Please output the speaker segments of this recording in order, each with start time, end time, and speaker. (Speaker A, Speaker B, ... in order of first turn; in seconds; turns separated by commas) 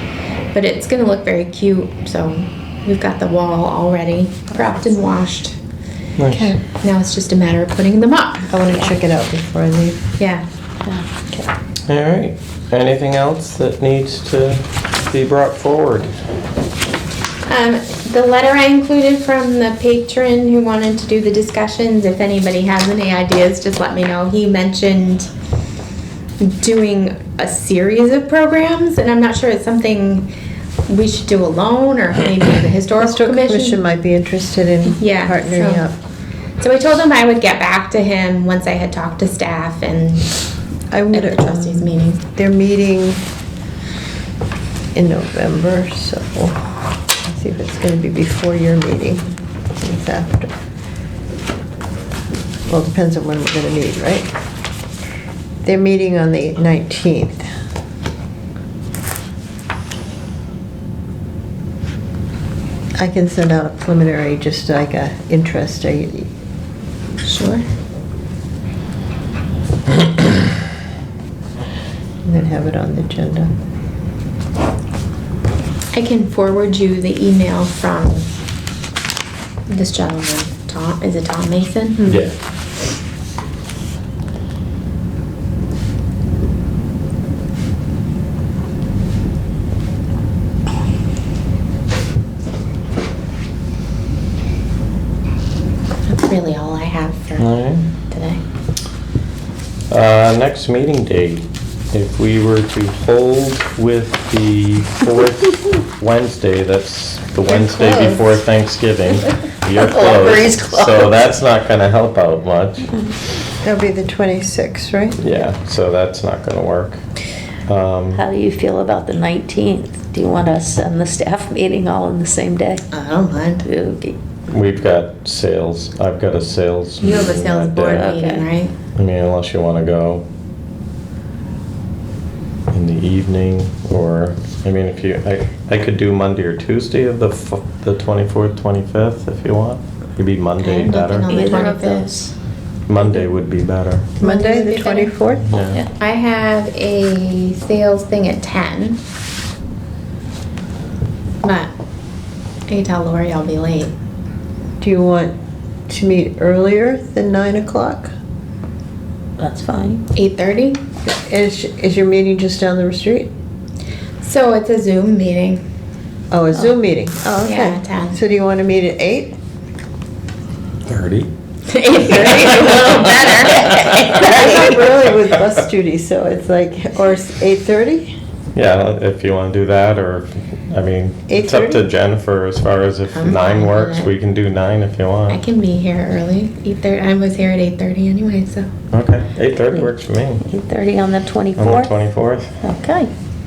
Speaker A: 0.5-5.6, Speaker B: 6.2-6.5, Speaker C: 6.3-6.6, Speaker A: 6.8-8.9, Speaker C: 8.6-10.0, Speaker A: 10.2-10.4, Speaker D: 10.8-11.2, Speaker B: 11.9-16.1, Speaker A: 17.4-25.3, Speaker A: 26.4-30.3, Speaker A: 30.9-33.8, Speaker C: 33.0-36.0, Speaker A: 34.9-35.9, Speaker A: 36.6-40.3, Speaker C: 40.9-43.2, Speaker A: 41.1-42.2, Speaker C: 45.0-46.7, Speaker C: 47.2-49.2, Speaker C: 49.8-50.5, Speaker C: 52.7-54.3, Speaker C: 55.6-57.5, Speaker C: 63.0-66.3, Speaker A: 67.2-67.6, Speaker C: 72.2-73.5, Speaker A: 75.9-78.3, Speaker A: 79.7-82.1, Speaker B: 82.0-82.4, Speaker A: 96.1-98.4, Speaker B: 97.4-97.8, Speaker B: 99.9-112.9, Speaker A: 107.5-108.3, Speaker D: 109.8-111.1, Speaker C: 113.6-115.2, Speaker B: 115.2-117.0, Speaker B: 117.7-118.2, Speaker D: 118.1-122.8, Speaker A: 122.9-123.6, Speaker D: 123.6-124.2, Speaker B: 124.5-128.1, Speaker A: 127.0-128.8, Speaker D: 127.9-128.5, Speaker B: 129.0-130.2, Speaker B: 132.7-141.4, Speaker A: 140.6-142.2, Speaker D: 141.3-142.3, Speaker B: 142.9-144.1, Speaker C: 144.2-145.5, Speaker A: 144.2-145.2, Speaker B: 145.4-145.8, Speaker A: 145.9-149.0, Speaker A: 151.4-151.7, Speaker A: 152.7-153.9, Speaker C: 154.8-155.3, Speaker C: 155.9-158.1, Speaker D: 159.4-160.0, Speaker A: 160.1-160.8, Speaker C: 161.1-163.3, Speaker A: 164.2-165.6, Speaker C: 166.3-169.3, Speaker A: 167.4-168.2, Speaker B: 170.8-171.3, Speaker A: 171.7-174.5, Speaker C: 172.0-172.8, Speaker B: 172.2-175.5, Speaker C: 174.1-178.1, Speaker B: 178.5-185.4, Speaker C: 181.3-181.8, Speaker A: 183.1-184.1, Speaker A: 185.3-188.7, Speaker B: 188.9-190.4, Speaker D: 190.5-191.9, Speaker B: 191.6-192.5, Speaker D: 192.6-193.1